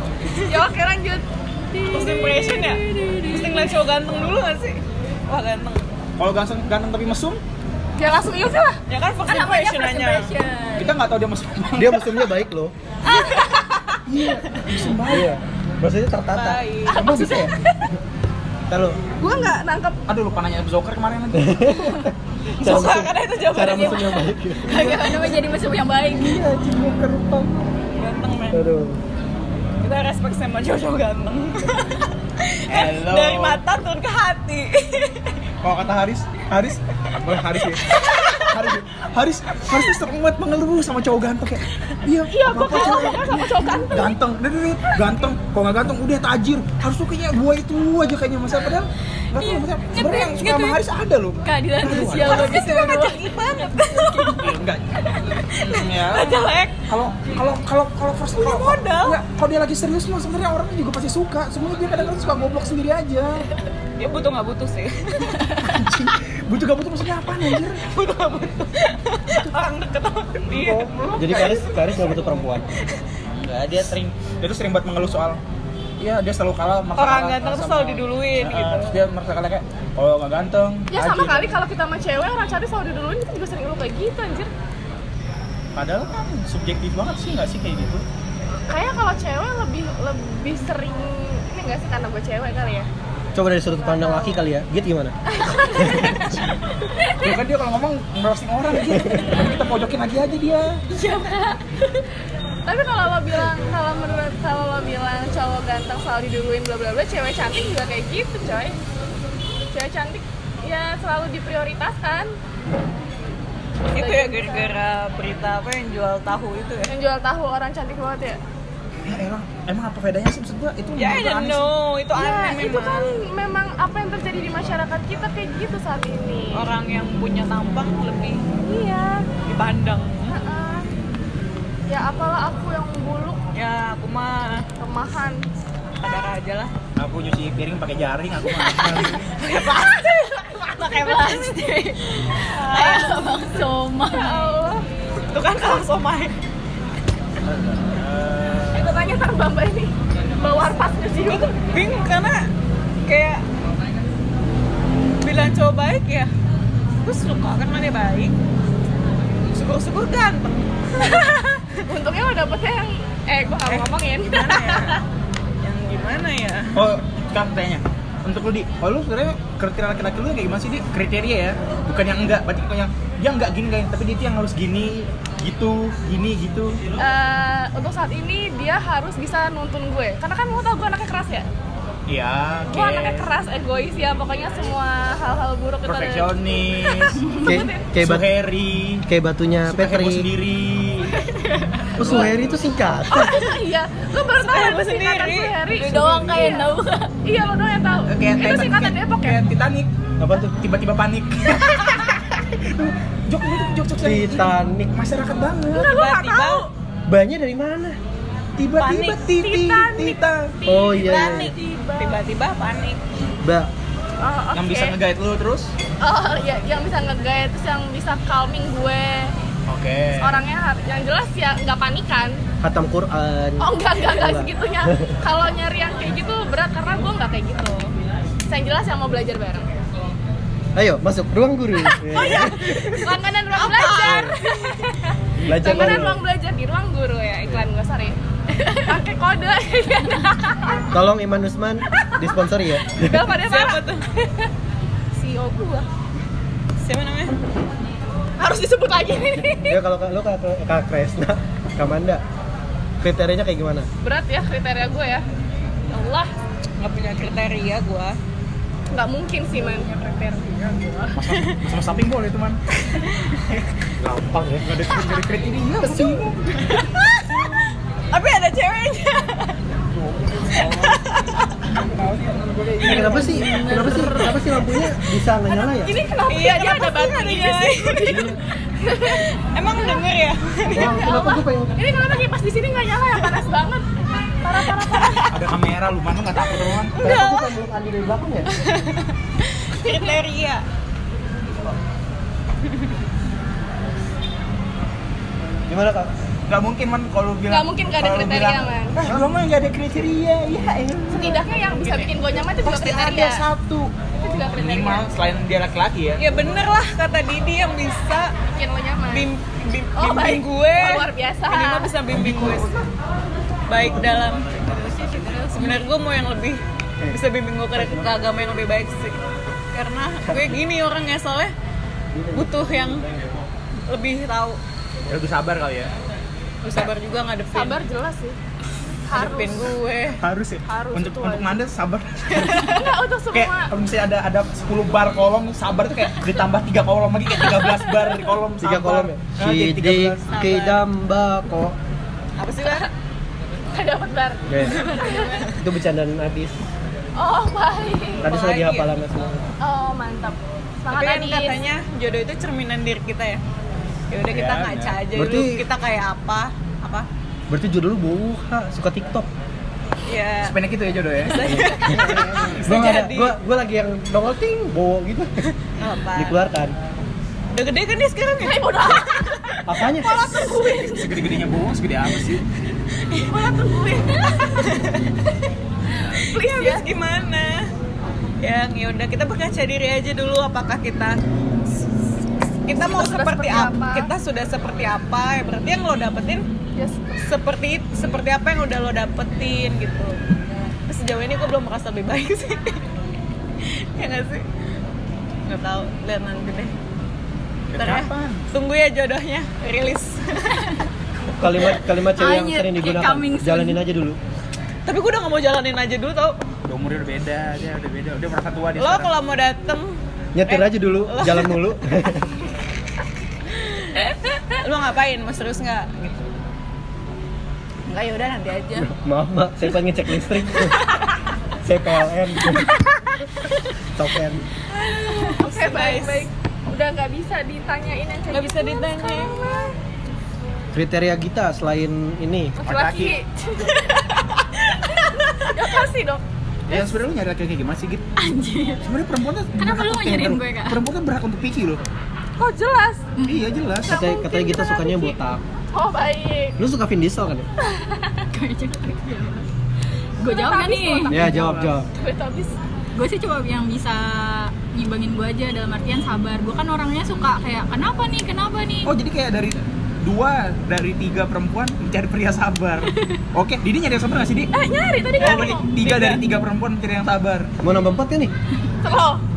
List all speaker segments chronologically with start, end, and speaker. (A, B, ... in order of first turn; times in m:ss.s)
0:00.5-0:01.3 A
0:01.7-0:03.8 B
0:01.9-0:05.9 C
0:06.2-0:07.4 D
0:08.0-0:08.8 A
0:08.9-0:10.3 C
0:09.3-0:10.9 B
0:09.4-0:10.2 A
0:10.8-0:12.2 D
0:11.8-0:12.7 E
0:13.0-0:14.0 C
0:14.1-0:15.3 D
0:15.0-0:17.5 E
0:16.3-0:17.2 C
0:16.9-0:17.8 A
0:18.7-0:19.0 E
0:19.2-0:20.0 A
0:20.1-0:21.7 D
0:21.3-0:25.2 E
0:22.6-0:24.3 C
0:24.6-0:26.5 B
0:26.4-0:27.6 D
0:26.6-0:27.4 E
0:27.9-0:28.6 C
0:28.5-0:29.0 E
0:29.8-0:35.5 C
0:32.7-0:33.6 D
0:35.6-0:52.6 D
0:38.0-0:38.5 C
0:42.3-0:44.2 A
0:49.3-0:50.8 B
0:51.4-0:54.4 B
0:52.2-0:54.4 C
0:54.1-1:03.5 D
0:55.5-0:56.8 C
0:58.4-0:59.2 C
1:04.0-1:05.4 C
1:05.6-1:07.8 D
1:07.8-1:13.0 C
1:10.6-1:11.5 D
1:10.7-1:12.7 E
1:13.4-1:15.4 D
1:16.0-1:21.5 D
1:17.0-1:19.0 C
1:20.9-1:24.5 A
1:25.8-1:28.0 D
1:28.7-1:32.9 A
1:33.4-1:35.2 E
1:33.8-1:34.4 A
1:35.3-1:36.4 A
1:35.8-1:36.6 D
1:35.9-1:36.2 E
1:37.2-1:40.8 D
1:41.0-1:41.6 B
1:42.7-1:48.8 A
1:49.7-1:52.3 A
1:53.9-1:56.9 C
1:54.0-1:54.8 A
1:56.9-1:58.4 A
1:59.1-2:01.7 D
2:01.0-2:03.2 C
2:02.2-2:06.6 A
2:06.5-2:08.4 C
2:08.6-2:09.3 A
2:09.4-2:10.4 C
2:10.3-2:10.9 A
2:11.9-2:13.4 A
2:13.5-2:14.7 C
2:14.8-2:15.4 A
2:16.0-2:16.7 C
2:17.0-2:19.2 D
2:18.7-2:21.6 C
2:20.0-2:20.8 A
2:21.0-2:22.0 B
2:22.3-2:23.2 C
2:22.7-2:23.3 A
2:22.7-2:24.6 B
2:24.1-2:24.8 A
2:25.3-2:26.4 C
2:27.4-2:28.9 D
2:28.7-2:31.5 A
2:31.3-2:32.5 C
2:33.1-2:33.4 C
2:35.2-2:36.3 C
2:37.0-2:38.4 C
2:39.5-2:41.4 C
2:41.0-2:45.0 A
2:43.7-2:45.0 C
2:45.6-2:46.9 C
2:46.7-2:56.8 D
2:57.0-3:01.5 A
3:02.1-3:03.3 D
3:02.7-3:07.9 A
3:05.8-3:07.2 D
3:07.2-3:07.6 B
3:07.4-3:08.3 E
3:08.0-3:09.0 D
3:09.0-3:10.3 E
3:09.7-3:11.2 D
3:11.3-3:11.7 B
3:12.0-3:13.5 E
3:12.0-3:12.6 D
3:13.1-3:19.4 A
3:14.3-3:16.4 C
3:15.9-3:17.1 B
3:18.1-3:19.9 D
3:20.2-3:20.6 E
3:20.6-3:25.9 D
3:24.0-3:24.9 E
3:25.7-3:26.7 A
3:25.7-3:26.6 C
3:27.1-3:28.0 E
3:28.6-3:30.5 D
3:28.8-3:29.2 C
3:29.3-3:32.2 A
3:30.7-3:31.5 E
3:30.9-3:33.0 C
3:33.4-3:33.7 E
3:34.2-3:35.0 A
3:34.6-3:35.7 D
3:36.0-3:39.3 A
3:39.7-3:40.4 D
3:40.2-3:42.4 A
3:42.6-3:45.0 E
3:43.6-3:47.9 A
3:48.5-3:49.7 A
3:50.8-3:53.0 E
3:52.1-3:54.4 C
3:52.2-3:58.2 A
3:54.0-3:54.3 E
3:55.4-3:56.2 E
3:58.6-3:58.9 B
3:58.7-4:00.8 A
4:00.9-4:03.4 E
4:02.9-4:04.3 A
4:03.4-4:04.1 C
4:05.1-4:05.9 A
4:06.8-4:07.4 C
4:08.4-4:09.8 A
4:09.4-4:12.2 E
4:13.0-4:13.9 E
4:14.0-4:15.2 A
4:15.9-4:16.3 A
4:16.8-4:18.2 C
4:18.9-4:21.2 A
4:21.2-4:22.6 D
4:22.9-4:23.6 C
4:24.0-4:26.4 D
4:24.2-4:24.7 E
4:25.8-4:26.3 A
4:26.5-4:27.5 C
4:28.1-4:29.6 C
4:30.5-4:31.5 C
4:32.5-4:33.4 D
4:32.8-4:36.0 E
4:33.0-4:34.8 A
4:33.4-4:34.3 C
4:35.5-4:40.0 A
4:36.3-4:38.3 C
4:38.0-4:38.4 E
4:39.0-4:41.3 C
4:40.7-4:41.8 E
4:40.7-4:43.9 A
4:44.4-4:45.3 A
4:44.9-4:45.3 C
4:45.3-4:47.0 D
4:46.9-4:47.6 C
4:47.0-4:48.5 E
4:48.5-4:50.6 C
4:55.7-4:56.1 E
4:56.5-5:01.3 D
4:57.5-4:59.0 A
5:01.1-5:03.4 A
5:01.2-5:02.2 C
5:02.6-5:03.9 D
5:04.2-5:05.1 A
5:04.6-5:06.2 D
5:06.2-5:08.3 C
5:08.5-5:09.3 A
5:09.1-5:12.7 C
5:10.0-5:11.9 A
5:12.1-5:12.9 E
5:13.7-5:19.2 C
5:13.8-5:14.2 E
5:17.7-5:18.1 E
5:19.7-5:21.5 C
5:20.2-5:20.6 E
5:22.1-5:23.2 E
5:22.3-5:23.0 C
5:23.9-5:24.6 C
5:25.1-5:25.9 D
5:26.6-5:27.8 C
5:27.5-5:28.4 A
5:29.1-5:29.7 A
5:29.1-5:30.2 C
5:30.2-5:32.8 D
5:30.7-5:31.6 A
5:32.3-5:32.8 C
5:32.6-5:33.7 A
5:33.3-5:40.3 D
5:38.6-5:41.8 E
5:40.3-5:40.8 C
5:42.4-5:42.9 C
5:43.7-5:45.5 A
5:44.5-5:44.9 E
5:44.6-5:45.6 C
5:45.6-5:46.6 E
5:47.2-5:48.3 A
5:48.2-5:49.5 E
5:48.2-5:48.9 C
5:49.6-5:51.6 A
5:50.9-5:53.4 C
5:54.1-5:57.1 C
5:54.2-5:55.0 D
5:55.1-5:55.6 E
5:57.5-5:59.3 E
6:00.1-6:00.6 C
6:00.4-6:02.9 D
6:01.2-6:03.4 C
6:01.4-6:05.4 E
6:05.8-6:06.4 C
6:06.2-6:06.8 E
6:07.5-6:11.0 C
6:08.4-6:09.2 A
6:09.7-6:10.1 E
6:10.0-6:11.1 A
6:10.9-6:12.4 D
6:13.1-6:13.5 C
6:13.3-6:14.7 A
6:14.3-6:15.2 C
6:16.0-6:16.9 A
6:16.1-6:17.7 C
6:18.4-6:21.9 C
6:22.6-6:26.5 C
6:22.8-6:24.1 A
6:26.8-6:27.2 A
6:27.2-6:30.2 C
6:30.8-6:32.8 C
6:33.6-6:34.5 C
6:35.5-6:36.8 C
6:37.7-6:38.4 D
6:37.8-6:40.8 C
6:41.3-6:44.2 E
6:42.2-6:43.8 B
6:44.9-6:46.5 C
6:46.6-6:49.1 D
6:48.8-6:51.6 C
6:50.3-6:52.3 E
6:53.5-6:54.0 C
6:54.6-6:56.2 C
6:57.9-6:58.9 C
6:58.8-7:00.8 E
7:00.5-7:01.1 C
7:01.6-7:02.7 E
7:03.9-7:04.4 E
7:04.8-7:06.3 C
7:05.0-7:09.8 A
7:08.3-7:09.7 C
7:10.7-7:12.6 E
7:12.6-7:13.8 A
7:12.6-7:13.2 D
7:14.7-7:15.5 C
7:15.4-7:16.2 A
7:16.7-7:18.0 D
7:18.2-7:18.8 B
7:18.8-7:21.8 D
7:19.6-7:20.8 B
7:22.4-7:23.1 A
7:23.2-7:23.5 B
7:23.3-7:23.9 D
7:23.8-7:25.2 A
7:23.8-7:25.4 E
7:25.7-7:26.6 A
7:26.6-7:27.5 E
7:27.6-7:28.1 A
7:28.3-7:29.5 B
7:30.2-7:31.2 B
7:30.2-7:31.4 A
7:31.1-7:31.9 E
7:31.1-7:31.7 D
7:32.0-7:32.5 A
7:33.0-7:38.9 B
7:38.9-7:44.5 D
7:42.9-7:43.2 B
7:44.5-7:45.7 A
7:45.2-7:47.5 D
7:45.8-7:46.2 C
7:47.6-7:48.3 E
7:48.8-7:49.2 A